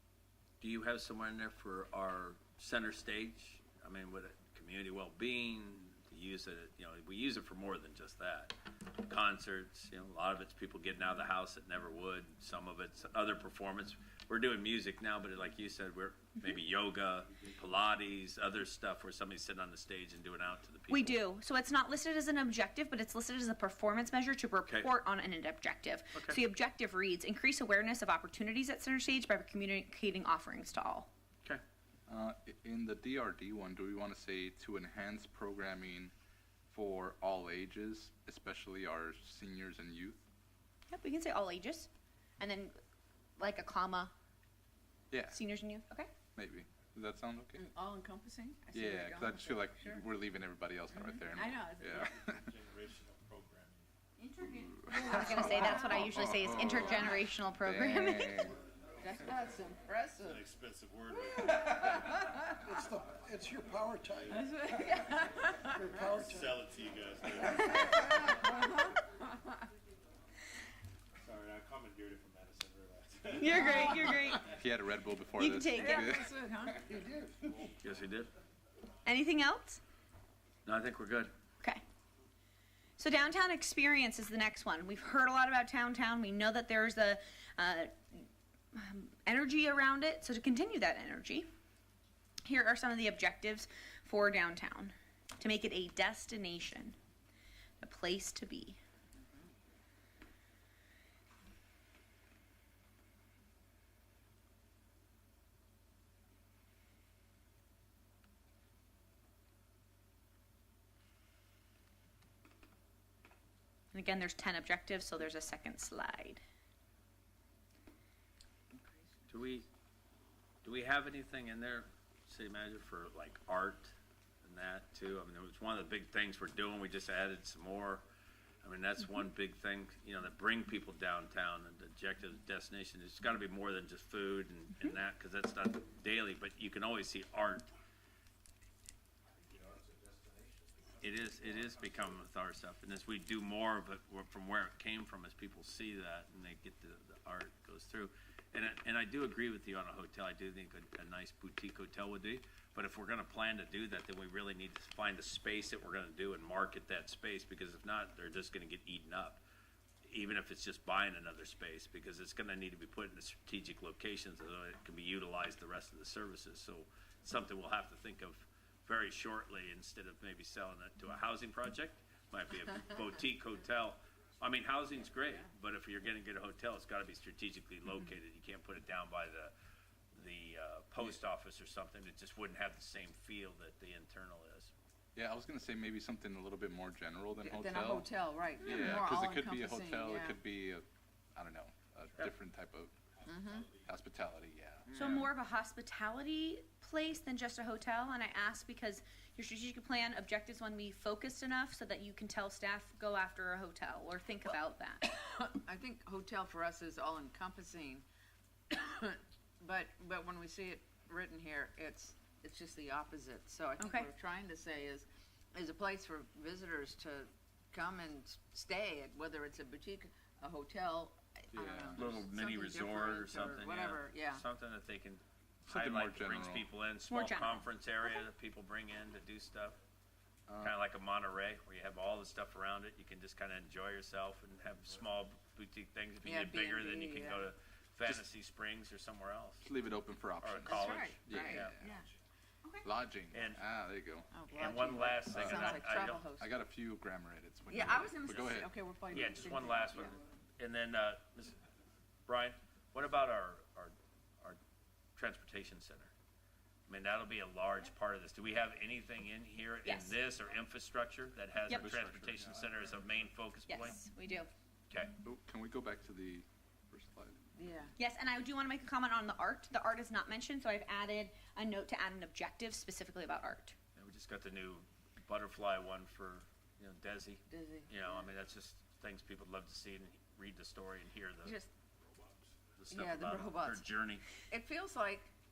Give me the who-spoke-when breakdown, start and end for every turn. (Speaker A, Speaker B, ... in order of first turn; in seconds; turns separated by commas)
Speaker A: 0.6-21.2, Speaker B: 20.9-31.1, Speaker A: 24.7-24.9, Speaker C: 32.1-36.1, Speaker C: 36.7-40.2, Speaker B: 40.9-42.7, Speaker B: 43.4-44.1, Speaker C: 45.1-45.4, Speaker B: 45.3-46.1, Speaker C: 46.4-47.6, Speaker D: 47.6-50.0, Speaker C: 48.7-52.4, Speaker D: 50.9-52.0, Speaker E: 52.0-53.9, Speaker D: 54.2-56.1, Speaker C: 54.8-58.6, Speaker B: 54.9-58.5, Speaker D: 56.8-57.2, Speaker D: 59.0-60.4, Speaker E: 60.2-62.1, Speaker D: 61.1-62.6, Speaker F: 62.7-64.4, Speaker E: 64.1-68.3, Speaker D: 64.4-65.6, Speaker F: 65.9-66.7, Speaker D: 68.0-69.0, Speaker E: 71.2-74.5, Speaker B: 73.3-74.5, Speaker D: 73.6-74.0, Speaker C: 74.2-76.2, Speaker B: 75.4-76.2, Speaker D: 75.8-76.8, Speaker F: 76.9-77.4, Speaker A: 77.8-78.3, Speaker B: 79.1-79.8, Speaker A: 80.7-81.3, Speaker B: 83.0-91.5, Speaker B: 92.5-97.0, Speaker B: 97.8-98.8, Speaker B: 113.9-116.4, Speaker D: 118.7-119.6, Speaker A: 119.3-119.7, Speaker A: 120.6-128.0, Speaker A: 128.6-137.7, Speaker A: 141.0-159.4, Speaker A: 160.0-179.5, Speaker A: 180.1-184.7, Speaker C: 185.2-188.1, Speaker D: 187.4-190.4, Speaker C: 188.6-192.9, Speaker B: 188.6-189.0, Speaker E: 193.2-193.9, Speaker D: 193.3-193.7, Speaker C: 193.8-195.2, Speaker D: 194.9-195.2, Speaker B: 194.9-205.1, Speaker A: 195.0-195.3, Speaker D: 205.0-208.1, Speaker D: 208.7-224.4, Speaker B: 213.8-214.1, Speaker C: 221.5-222.2, Speaker A: 221.9-229.8, Speaker C: 225.7-226.7, Speaker B: 227.1-227.7, Speaker C: 230.5-230.7, Speaker A: 230.6-239.6, Speaker D: 236.2-237.5, Speaker C: 239.6-241.9, Speaker A: 240.4-241.8, Speaker D: 240.7-242.1, Speaker C: 242.8-244.3, Speaker A: 243.3-243.6, Speaker D: 244.3-246.5, Speaker A: 244.5-246.2, Speaker C: 245.3-248.7, Speaker D: 247.7-250.2, Speaker A: 249.1-251.6, Speaker A: 252.3-254.6, Speaker A: 255.2-256.1, Speaker A: 256.9-264.0, Speaker B: 259.9-260.2, Speaker C: 261.8-262.4, Speaker B: 263.7-264.5, Speaker C: 265.2-267.4, Speaker D: 267.6-267.9, Speaker B: 268.0-273.8, Speaker A: 274.0-281.6, Speaker D: 277.5-277.9, Speaker D: 281.4-281.7, Speaker A: 282.8-284.3, Speaker D: 282.9-283.8, Speaker D: 284.5-285.3